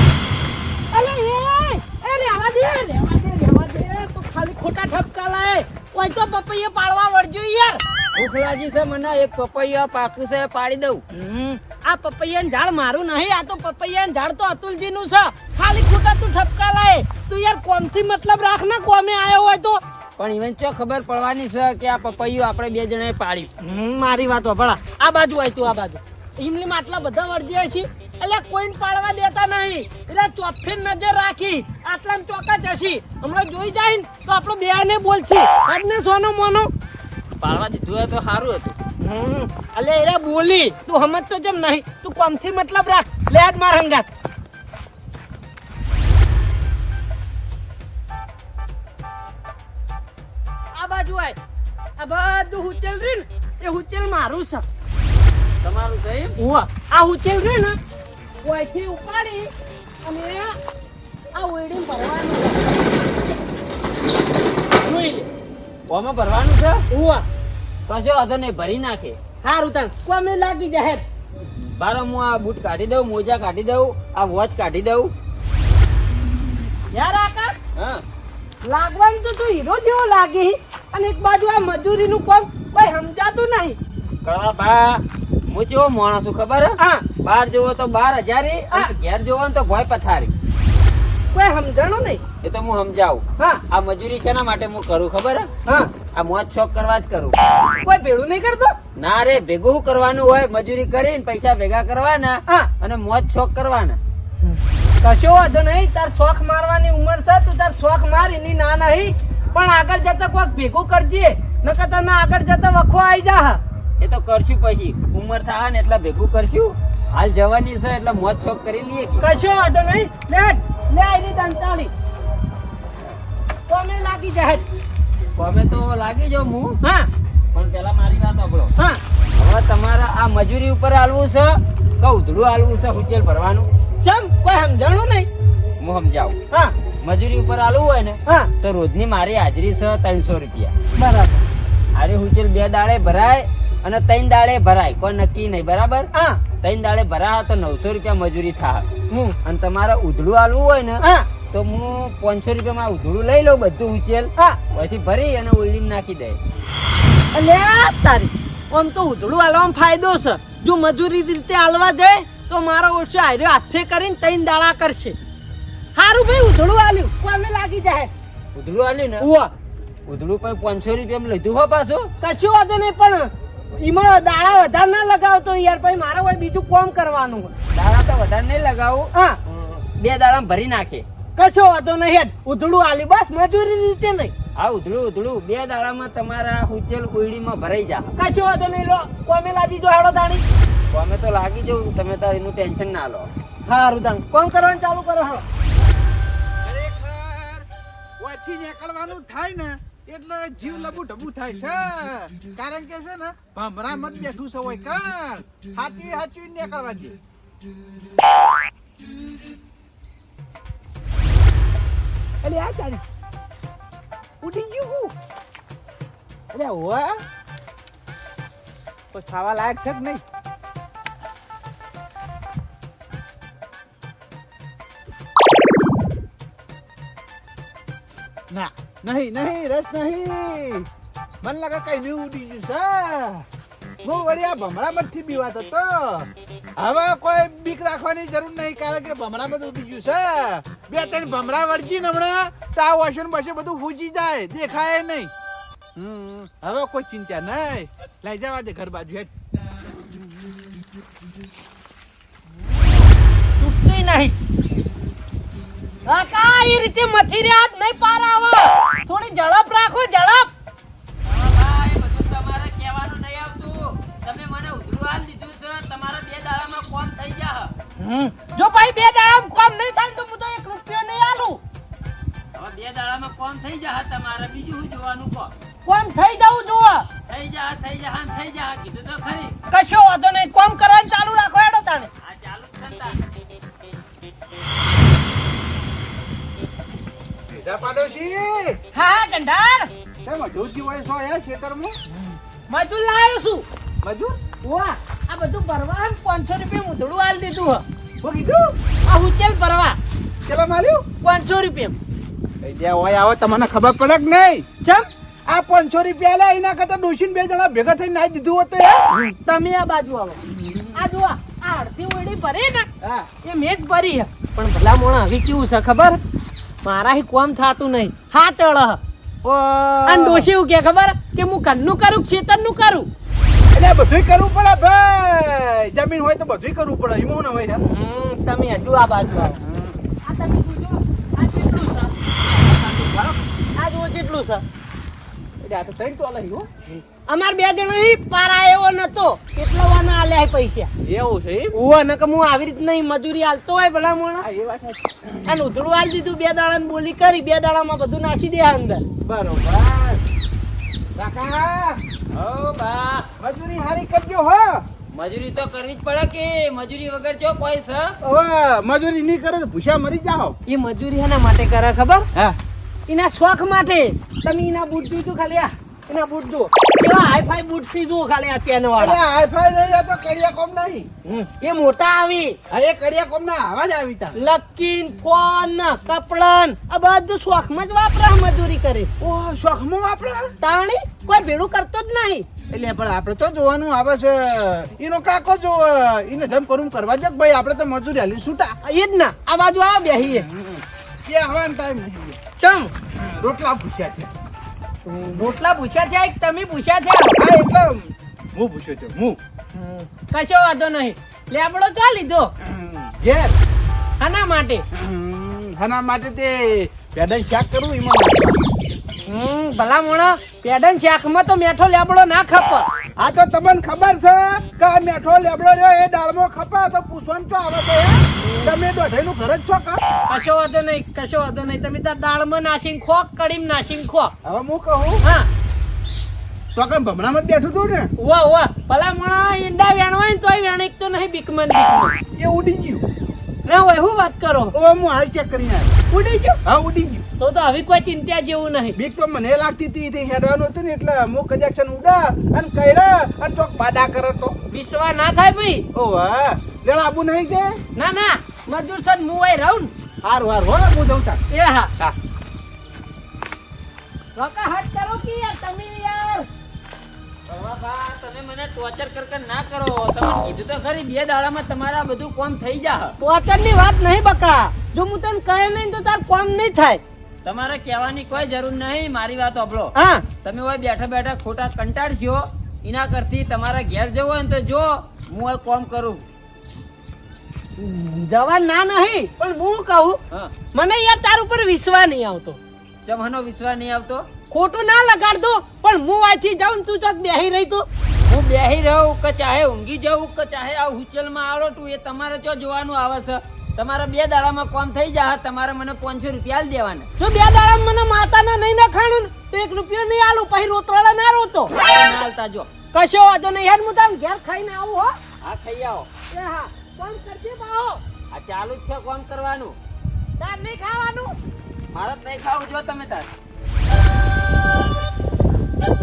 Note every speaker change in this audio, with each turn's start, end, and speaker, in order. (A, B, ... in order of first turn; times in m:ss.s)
0:00.9-0:07.8 A
0:08.1-0:11.0 B
0:11.1-0:19.8 A
0:20.2-0:23.5 B
0:23.6-0:36.7 A
0:37.4-0:38.8 B
0:39.0-0:44.1 A
0:50.8-0:51.4 A
0:52.0-0:54.7 A
0:55.6-0:56.4 B
0:56.4-0:57.8 A
0:58.4-0:59.5 A
1:00.0-1:00.6 A
1:01.3-1:02.8 A
1:04.8-1:05.3 A
1:05.9-1:06.8 B
1:06.9-1:07.2 A
1:07.9-1:09.2 B
1:09.4-1:11.0 A
1:11.6-1:15.1 B
1:16.9-1:17.6 A
1:17.8-1:18.0 B
1:18.6-1:23.8 A
1:24.2-1:30.3 B
1:26.8-1:27.1 A
1:31.3-1:32.2 A
1:32.4-1:35.5 B
1:35.7-1:35.9 A
1:36.1-1:37.4 B
1:37.8-1:38.8 A
1:39.0-1:44.0 B
1:44.5-1:53.6 A
1:54.0-1:59.3 B
1:59.2-2:01.9 A
2:03.7-2:04.6 A
2:05.4-2:06.8 B
2:06.8-2:07.1 A
2:07.5-2:08.7 B
2:09.4-2:13.7 B
2:14.0-2:15.3 A
2:15.8-2:16.4 B
2:17.0-2:20.7 B
2:21.0-2:21.4 A
2:22.0-2:26.1 B
2:26.1-2:26.4 A
2:26.6-2:28.9 B
2:29.1-2:29.4 A
2:29.4-2:36.4 B
2:31.0-2:31.3 A
2:37.3-2:45.2 A
2:46.0-2:48.1 A
2:48.6-2:49.3 B
2:49.2-2:49.5 A
2:50.1-2:52.1 B
2:52.2-2:57.5 A
2:57.7-3:01.0 B
3:01.4-3:04.3 A
3:04.6-3:08.1 B
3:08.2-3:10.4 A
3:10.9-3:13.3 B
3:13.7-3:15.4 A
3:16.6-3:17.7 C
3:18.2-3:27.2 C
3:32.4-3:33.0 C
3:34.4-3:35.1 C
3:36.5-3:37.2 C
3:39.1-3:40.2 C
3:48.5-3:50.9 C
3:51.4-3:53.5 C
3:54.0-4:05.3 C
4:06.0-4:09.3 C
4:13.6-4:14.4 A
4:16.1-4:20.5 A
4:21.2-4:27.7 B
4:28.0-4:31.6 A
4:32.6-4:35.5 B
4:35.9-4:37.1 A
4:37.3-4:39.6 B
4:39.7-4:42.1 A
4:42.2-4:43.2 B
4:47.5-4:48.8 C
4:48.9-4:49.9 A
4:50.2-4:52.0 C
4:52.7-4:53.6 A
4:54.0-4:54.4 C
4:54.6-4:57.8 A
4:58.2-4:58.8 C
4:59.1-5:00.0 A
5:00.5-5:01.0 C
5:01.2-5:02.0 A
5:02.6-5:04.6 C
5:05.5-5:09.0 C
5:09.1-5:10.4 A
5:10.5-5:11.0 C
5:11.0-5:12.9 A
5:13.0-5:13.3 C
5:13.4-5:16.2 A
5:16.8-5:19.0 A
5:19.4-5:20.5 C
5:20.1-5:23.1 A
5:23.7-5:27.8 C
5:27.8-5:29.6 A
5:29.3-5:30.0 C
5:30.2-5:32.2 A
5:32.2-5:33.4 C
5:33.8-5:34.6 A
5:35.6-5:36.7 C
5:37.3-5:40.9 A
5:41.0-5:41.8 C
5:41.7-5:44.5 A
5:44.4-5:45.6 C
5:45.5-5:49.0 A
5:49.2-5:50.2 C
5:51.2-5:52.0 C
5:52.3-5:53.3 B
5:53.4-5:54.8 C
5:55.1-5:58.1 B
5:58.2-6:00.6 C
6:00.7-6:02.3 A
6:03.1-6:09.2 A
6:09.0-6:11.1 C
6:11.2-6:12.6 A
6:12.7-6:14.4 C
6:14.4-6:19.1 A
6:19.2-6:20.5 C
6:20.6-6:22.5 A
6:22.7-6:28.8 C
6:28.8-6:30.5 A
6:30.3-6:32.4 C
6:32.6-6:32.9 A
6:33.2-6:34.3 C
6:35.0-6:37.4 A
6:37.4-6:39.4 C
6:39.7-6:42.5 A
6:42.6-6:43.6 C
6:44.2-6:44.8 A
6:44.9-6:48.6 C
6:49.2-6:52.9 A
6:53.2-7:00.0 C
6:58.4-6:58.7 A
7:00.3-7:04.3 A
7:04.4-7:05.2 C
7:05.2-7:05.5 A
7:06.8-7:08.1 C
7:08.2-7:12.2 A
7:12.4-7:13.0 C
7:13.7-7:14.7 A
7:14.7-7:15.9 C
7:16.1-7:16.6 A
7:16.6-7:17.2 C
7:17.4-7:19.0 A
7:19.0-7:24.6 C
7:24.7-7:25.8 A
7:25.9-7:27.8 C
7:28.0-7:29.9 A
7:30.2-7:31.4 C
7:31.5-7:31.9 A
7:34.4-7:36.5 A
7:37.5-7:43.2 B
7:43.2-7:47.0 A
7:47.4-7:56.2 B
7:50.0-7:50.2 A
7:57.8-8:00.2 A
8:00.7-8:02.6 A
8:03.1-8:04.3 B
8:04.5-8:07.9 A
8:08.2-8:17.1 B
8:17.2-8:21.7 A
8:21.8-8:22.7 B
8:22.9-8:25.2 A
8:25.4-8:26.1 B
8:26.3-8:28.0 A
8:28.3-8:29.8 B
8:30.4-8:31.4 A
8:31.9-8:33.3 B